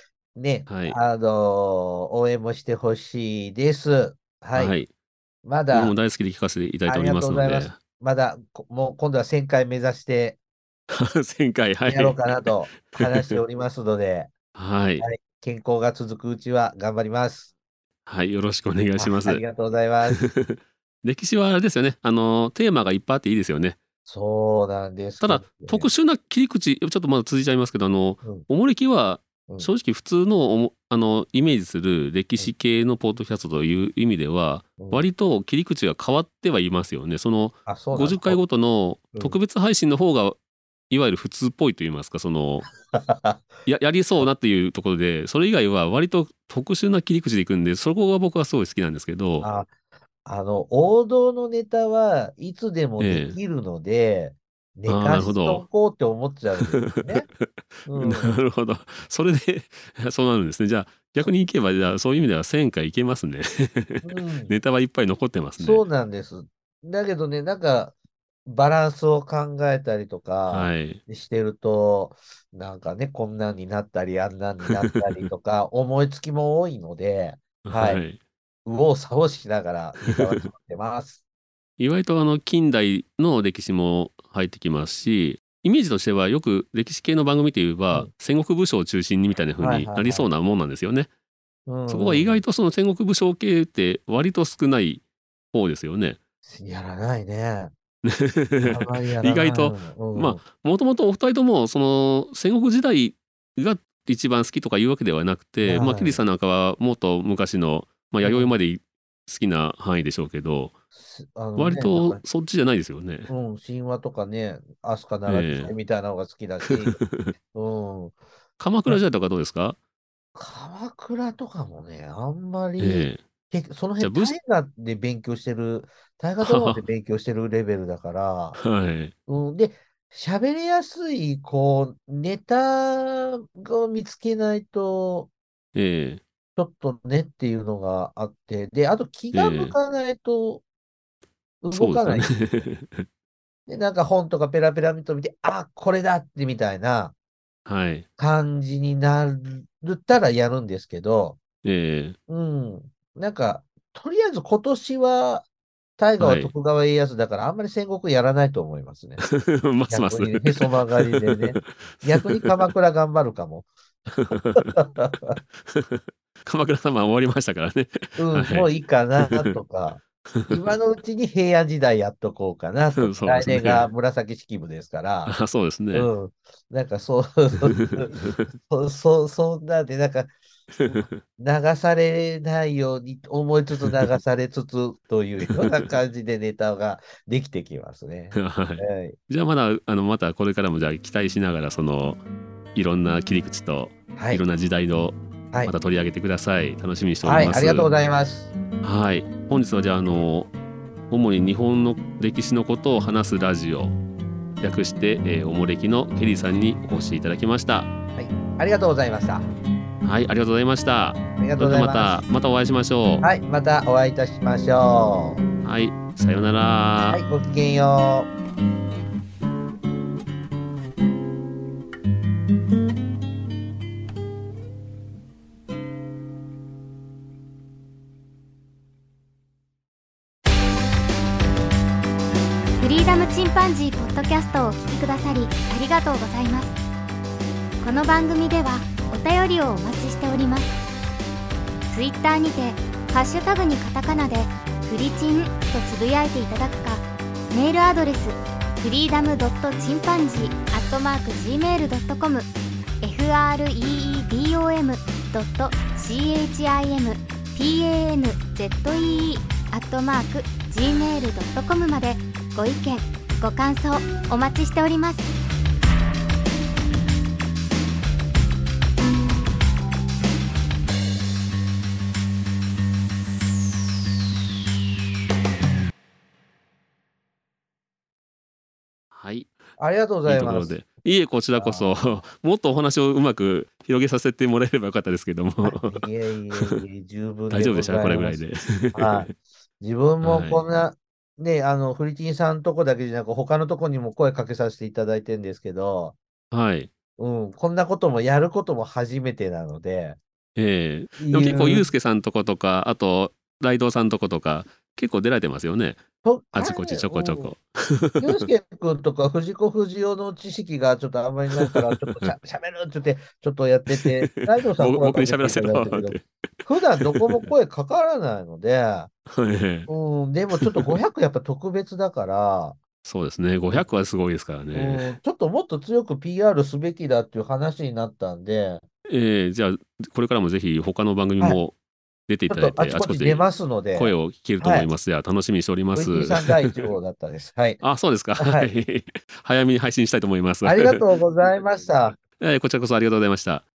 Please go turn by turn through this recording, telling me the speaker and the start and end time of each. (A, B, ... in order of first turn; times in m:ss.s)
0:00.3-0:04.8 A
0:00.7-0:01.0 B
0:04.5-0:04.9 B
0:05.4-0:05.9 A
0:05.7-0:07.8 B
0:06.8-0:10.4 A
0:10.9-0:13.4 B
0:11.9-0:14.3 A
0:14.5-0:15.0 B
0:15.0-0:17.5 A
0:18.0-0:19.4 B
0:19.0-0:20.2 A
0:20.1-0:23.8 B
0:24.0-0:25.9 A
0:25.2-0:40.4 B
0:34.8-0:35.1 A
0:37.7-0:38.4 A
0:40.9-0:42.7 B
0:42.9-0:43.6 A
0:43.6-0:49.5 B
0:49.4-0:49.7 A
0:50.2-0:57.3 A
0:53.0-0:53.4 B
0:54.9-0:55.7 B
0:56.6-1:05.8 B
0:57.9-0:58.3 A
1:04.0-1:04.5 A
1:05.6-1:18.0 A
1:10.5-1:11.0 B
1:17.6-1:18.2 B
1:18.6-1:21.2 A
1:21.8-1:31.1 B
1:29.6-1:30.3 A
1:31.7-1:32.4 A
1:31.9-1:36.2 B
1:36.4-1:37.7 A
1:38.0-1:50.7 B
1:38.6-1:40.4 A
1:45.6-1:46.2 A
1:48.2-1:48.5 A
1:50.9-1:52.2 A
1:51.6-1:53.3 B
1:53.3-1:57.0 A
1:55.2-1:55.7 B
1:56.7-1:57.3 B
1:57.5-1:58.2 A
1:58.6-1:59.8 B
2:00.3-2:08.6 A
2:02.8-2:03.2 B
2:04.0-2:04.4 B
2:06.4-2:06.8 B
2:08.6-2:09.1 B
2:09.3-2:15.3 A
2:15.7-2:16.2 B
2:16.6-2:20.6 A
2:19.3-2:19.8 B
2:21.6-2:22.3 A
2:21.7-2:23.0 B
2:23.7-2:27.1 A
2:27.6-2:28.0 B
2:28.2-2:31.4 A
2:31.6-2:32.2 B
2:32.3-2:35.4 A
2:36.0-2:39.2 A
2:36.2-2:36.5 B
2:39.2-2:42.7 B
2:39.9-2:43.7 A
2:44.2-2:44.7 B
2:44.6-2:45.4 A
2:45.7-2:48.7 B
2:48.2-2:55.4 A
2:49.3-2:49.5 B
2:50.3-2:50.6 B
2:53.0-2:53.9 B
2:55.3-2:56.1 B
2:55.9-3:00.3 A
2:57.6-2:58.4 B
3:00.7-3:01.2 B
3:00.8-3:09.2 A
3:03.8-3:04.2 B
3:05.5-3:05.9 B
3:08.3-3:12.2 B
3:12.7-3:17.9 B
3:14.1-3:14.4 A
3:17.2-3:18.5 A
3:18.8-3:20.5 B
3:21.1-3:24.0 B
3:24.6-3:27.9 B
3:28.2-3:29.5 A
3:30.0-3:33.2 B
3:31.4-3:32.2 A
3:33.2-3:35.4 A
3:35.6-3:37.2 B
3:37.1-3:38.3 A
3:52.8-3:56.8 C
3:57.8-4:00.8 C
4:01.9-4:12.5 C
4:13.0-4:25.3 C
4:39.1-4:39.5 B
4:39.8-4:40.8 A
4:40.2-4:46.8 B
4:41.5-4:42.2 A
4:45.6-4:56.2 A
4:47.5-4:49.3 B
4:50.2-4:50.6 B
4:56.5-4:56.9 B
4:57.2-5:00.2 A
5:00.6-5:06.0 B
5:01.2-5:01.9 A
5:06.2-5:07.5 A
5:06.5-5:08.5 B
5:08.2-5:19.1 A
5:11.5-5:12.3 B
5:13.9-5:16.4 B
5:17.0-5:17.5 B
5:19.3-5:19.9 B
5:19.9-5:22.8 A
5:20.6-5:20.9 B
5:23.0-5:25.1 B
5:24.7-5:28.8 A
5:29.1-5:31.8 B
5:32.3-5:36.8 B
5:32.5-5:34.9 A
5:35.9-5:37.8 A
5:37.8-5:41.0 B
5:38.4-5:38.7 A
5:40.6-5:42.2 A
5:42.4-5:43.6 B